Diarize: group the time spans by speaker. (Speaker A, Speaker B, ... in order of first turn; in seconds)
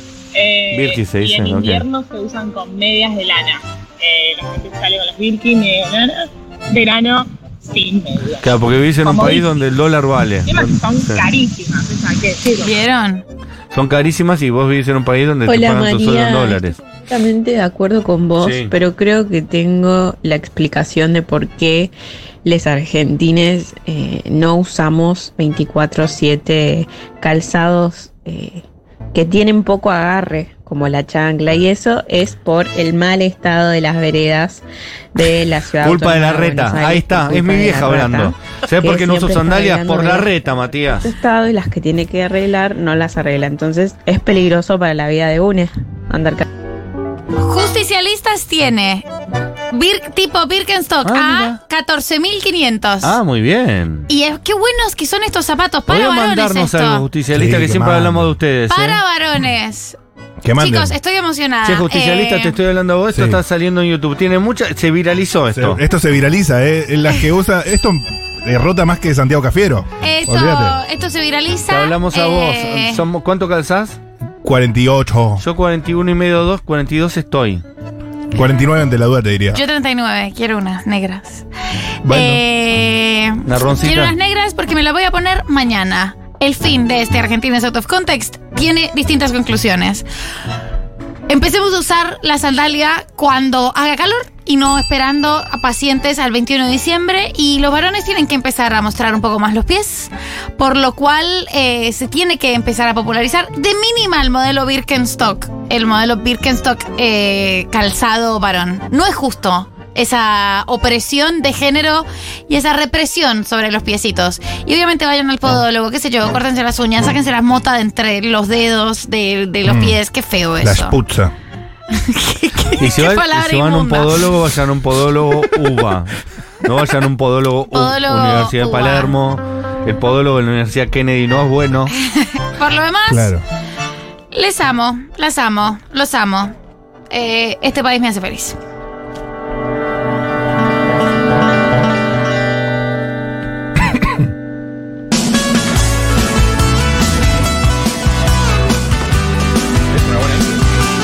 Speaker A: 0.3-6.2, 6.7-8.6, 9.1-9.5, 10.5-12.7
Speaker B: 0.7-1.9, 8.4-11.2, 13.7-16.8, 18.4-18.7, 35.8-41.1, 51.0-51.6, 53.0-54.1, 55.9-59.0, 61.6-65.8, 71.7-74.0, 75.4-77.6, 83.5-84.2, 122.8-131.9
Speaker C: 12.5-13.2, 47.4-49.1, 49.7-53.1, 54.1-57.0, 58.7-60.0, 60.6-62.5, 70.0-73.0, 79.5-81.5, 82.1-90.1, 91.3-121.0, 121.9-124.3, 127.7-129.1, 132.1-133.3, 134.3-136.5, 137.1-138.6
Speaker D: 15.5-21.9, 22.4-28.6, 29.1-34.6, 35.1-40.3, 41.0-46.5
Speaker E: 57.3-58.4, 60.4-61.0, 63.1-63.4, 65.5-70.8, 74.4-75.5, 78.3-79.6, 82.0-82.4, 119.7-120.0, 120.6-121.3, 133.1-133.4, 149.9-150.5